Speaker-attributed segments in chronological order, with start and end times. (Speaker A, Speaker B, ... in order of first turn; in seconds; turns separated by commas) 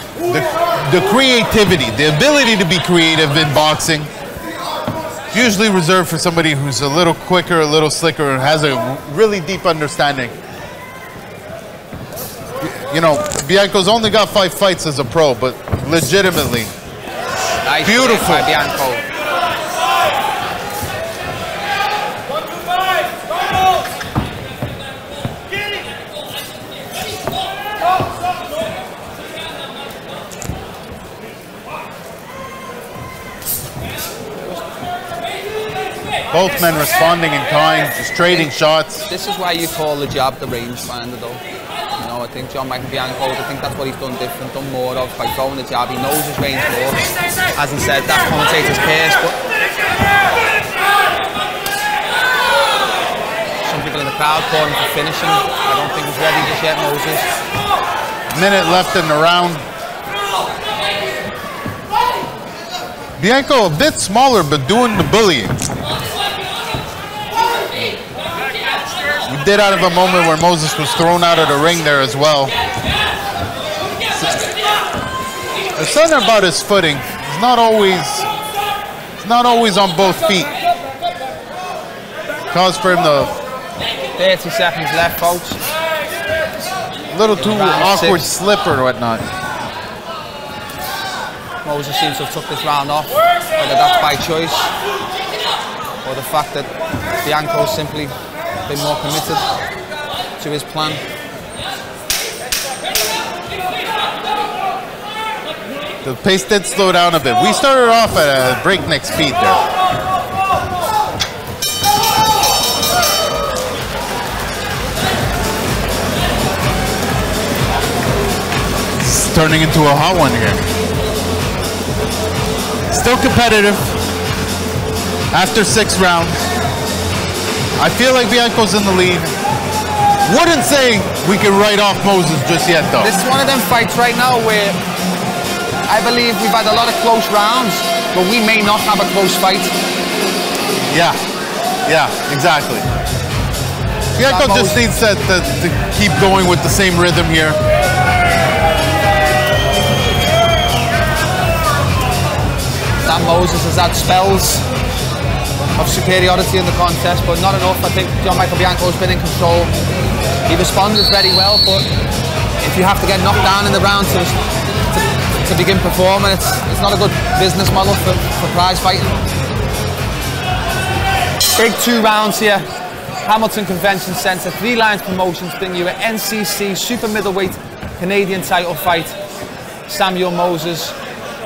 Speaker A: 0.2-4.1, Speaker A: 5.3-10.3, Speaker A: 12.6-16.7, Speaker B: 17.6-19.0, Speaker A: 17.8-18.5, Speaker A: 36.3-39.0, Speaker B: 39.1-41.4, Speaker B: 42.0-49.4, Speaker B: 53.6-57.3, Speaker A: 58.3-59.6, Speaker A: 63.2-65.6, Speaker A: 69.3-72.5, Speaker A: 75.8-78.3, Speaker A: 79.2-80.5, Speaker A: 82.5-83.3, Speaker B: 84.2-85.6, Speaker A: 87.1-89.2, Speaker B: 87.3-88.3, Speaker B: 91.6-94.7, Speaker B: 96.0-96.7, Speaker B: 97.2-98.1, Speaker B: 98.7-99.5, Speaker B: 100.4-101.0, Speaker A: 106.0-109.6, Speaker A: 119.0-120.7, Speaker A: 122.9-123.9, Speaker A: 125.3-126.4, Speaker A: 127.8-129.3, Speaker A: 130.2-133.1, Speaker B: 133.0-134.8, Speaker B: 135.9-139.7, Speaker A: 140.9-141.2, Speaker A: 141.8-142.8, Speaker A: 144.2-147.6, Speaker B: 144.2-144.8, Speaker B: 153.0-154.6, Speaker B: 155.8-159.7, Speaker B: 160.5-161.9, Speaker B: 162.6-164.4, Speaker B: 164.9-169.2, Speaker B: 171.6-172.7, Speaker B: 173.2-179.2, Speaker B: 179.9-180.9